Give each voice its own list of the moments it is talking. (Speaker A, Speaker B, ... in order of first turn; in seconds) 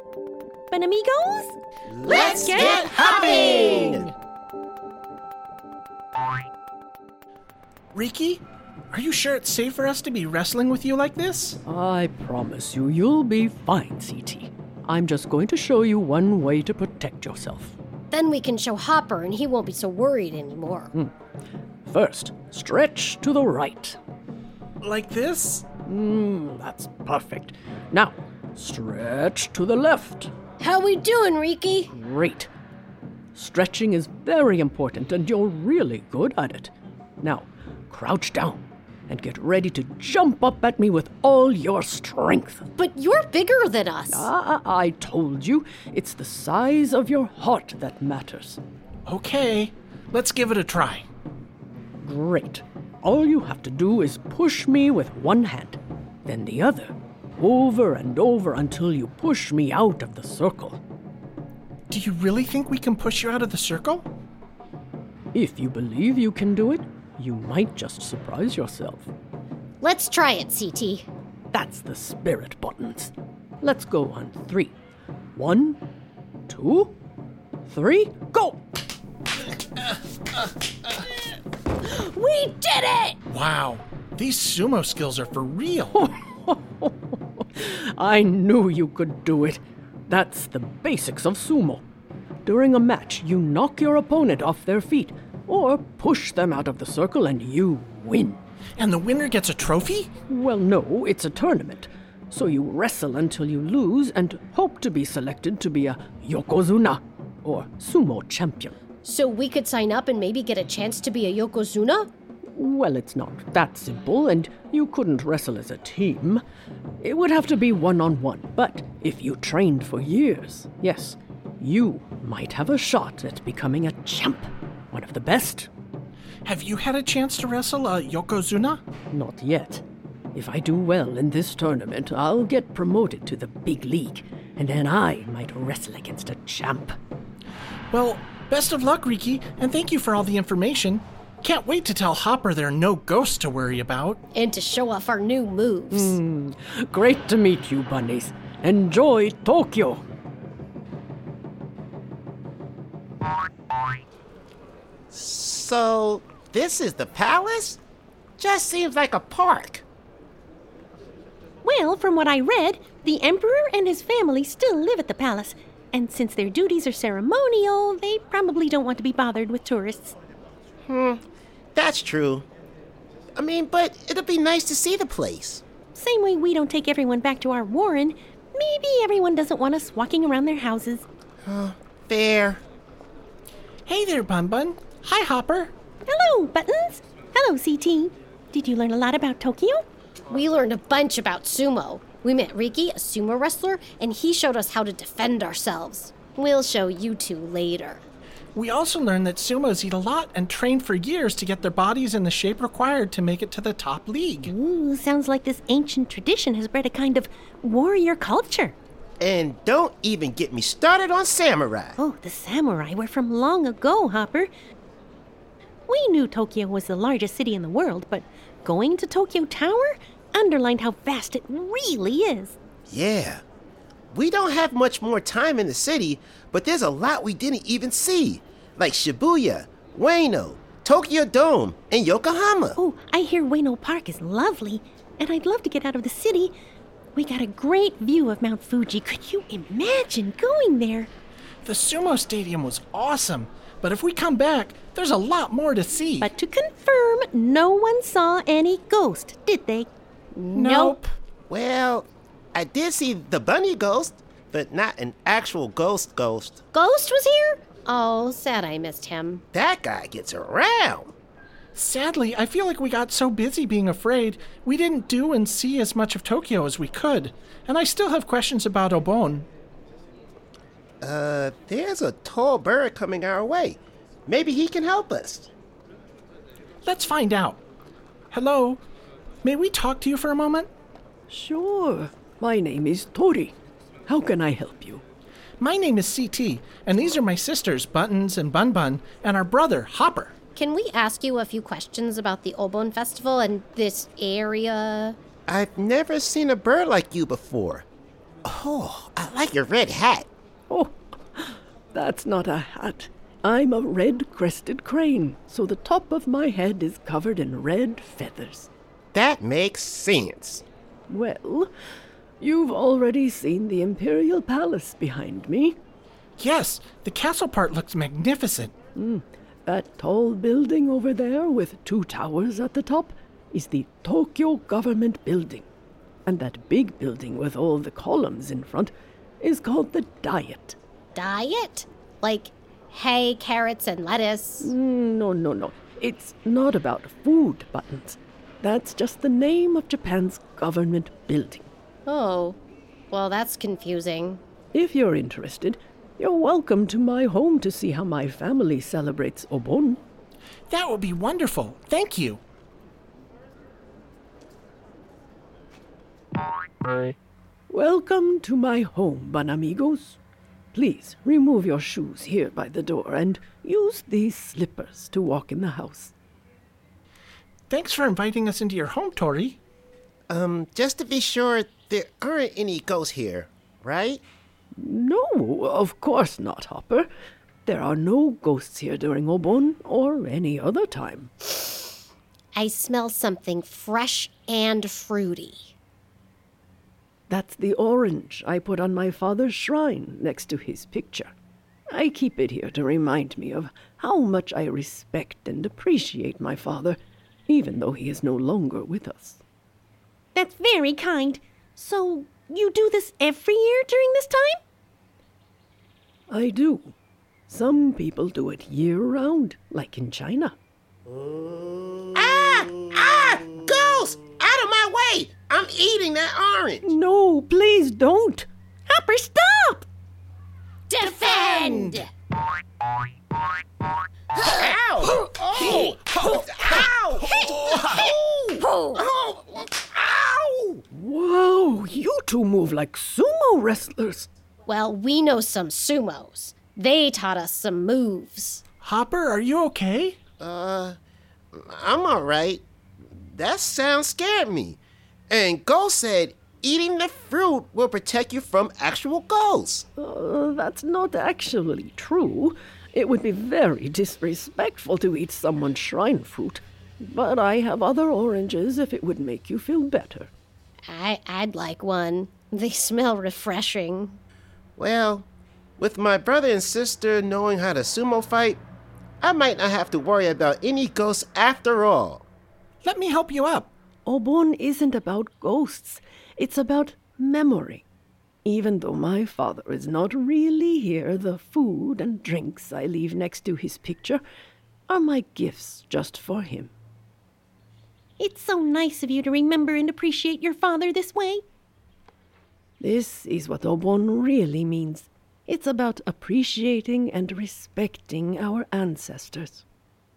Speaker A: 0.7-4.0, 82.6-83.1, 161.6-170.1, 175.9-181.1, 186.1-189.8, 204.4-208.7, 212.0-214.5, 215.9-222.6, 232.8-236.5, 237.1-241.1, 246.2-249.9, 400.3-404.6, 418.9-419.9, 488.2-491.4
Speaker B: 1.9-4.1, 155.1-157.8, 158.4-159.8, 170.9-171.2, 171.7-172.4, 173.3-175.6, 181.4-182.6, 209.2-211.9, 222.9-223.4, 224.1-232.8, 251.5-256.6, 259.5-261.1, 271.0-275.5, 295.5-297.9, 298.4-300.3, 309.1-310.6, 370.3-374.2, 412.1-416.9, 424.3-430.8, 440.4-441.0, 441.5-444.8, 445.3-449.9, 464.8-465.3, 465.8-468.6, 469.2-472.2
Speaker C: 7.9-11.6, 24.8-25.7, 49.1-51.0, 61.9-64.1, 83.3-85.9, 98.8-100.2, 126.4-128.8, 137.9-144.2, 183.9-185.7, 198.6-204.4, 241.6-246.3, 250.7-251.1, 261.7-269.5, 276.9-277.6, 278.3-278.8, 279.4-280.7, 285.6-290.4, 316.4-318.7, 350.7-352.4, 367.7-369.6, 438.8-440.2, 472.8-473.7
Speaker D: 11.7-17.8, 21.9-24.0, 25.8-30.3, 31.9-32.5, 33.3-42.7, 44.1-48.6, 52.0-60.8, 65.3-69.1, 71.5-74.7, 75.3-75.8, 76.5-77.0, 77.7-78.6, 86.0-91.8, 92.5-98.4, 100.2-108.8, 112.5-116.4, 117.0-125.7, 129.1-129.8, 130.3-136.9, 145.9-150.0, 281.3-283.6, 284.1-285.0, 300.7-308.7, 311.1-311.7, 312.4-315.8, 318.9-325.6, 326.2-330.8, 334.6-341.7, 344.7-350.0, 357.7-360.2, 360.7-366.1, 374.8-377.1, 377.6-381.3, 387.3-391.3, 391.9-399.4, 406.3-406.9, 407.5-410.6, 416.8-418.5, 430.9-434.3, 450.0-460.3, 474.1-477.8, 478.4-484.2, 484.9-486.7, 492.8-499.6
Speaker E: 18.1-20.9, 30.6-31.9, 42.8-44.3, 69.8-71.0, 109.0-112.1, 144.3-146.2, 190.3-198.0, 250.3-251.0, 256.7-259.4, 290.6-295.1, 331.1-334.7, 342.1-342.6, 343.1-344.4, 382.5-385.7, 420.9-422.1, 434.6-438.6, 460.9-464.2